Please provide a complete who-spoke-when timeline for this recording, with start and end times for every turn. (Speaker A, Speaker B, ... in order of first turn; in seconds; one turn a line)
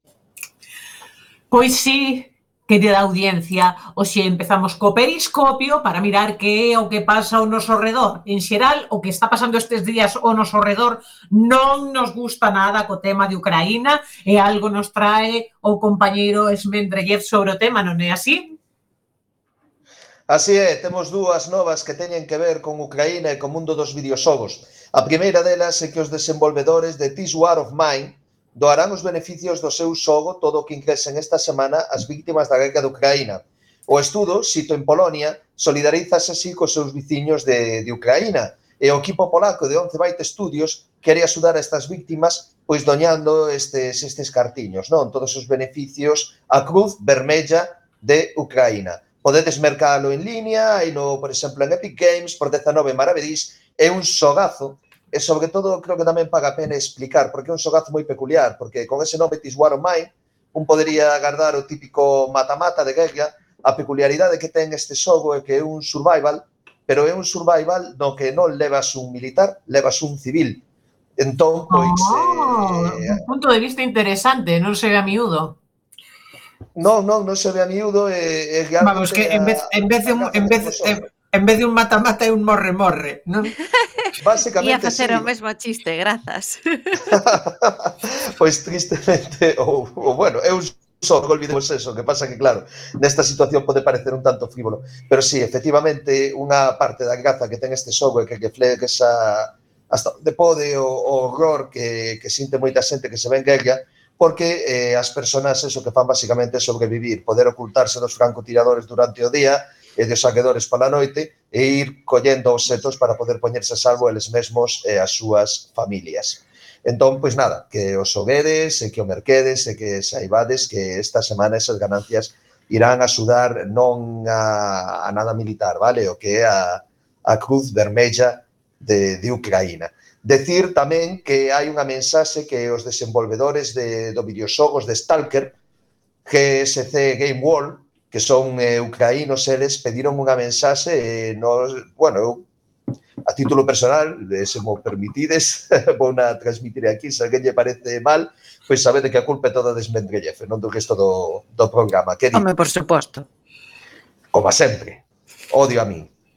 Speaker A: 1.5-18.6
Speaker B: 20.3-70.6
Speaker B: 71.2-73.2
Speaker A: 71.7-75.6
Speaker B: 76.7-81.0
Speaker C: 78.8-83.6
Speaker B: 84.2-85.3
Speaker D: 84.6-87.2
Speaker B: 87.0-135.5
Speaker B: 136.2-142.4
Speaker B: 143.2-152.4
Speaker D: 152.3-153.2
Speaker B: 154.3-156.1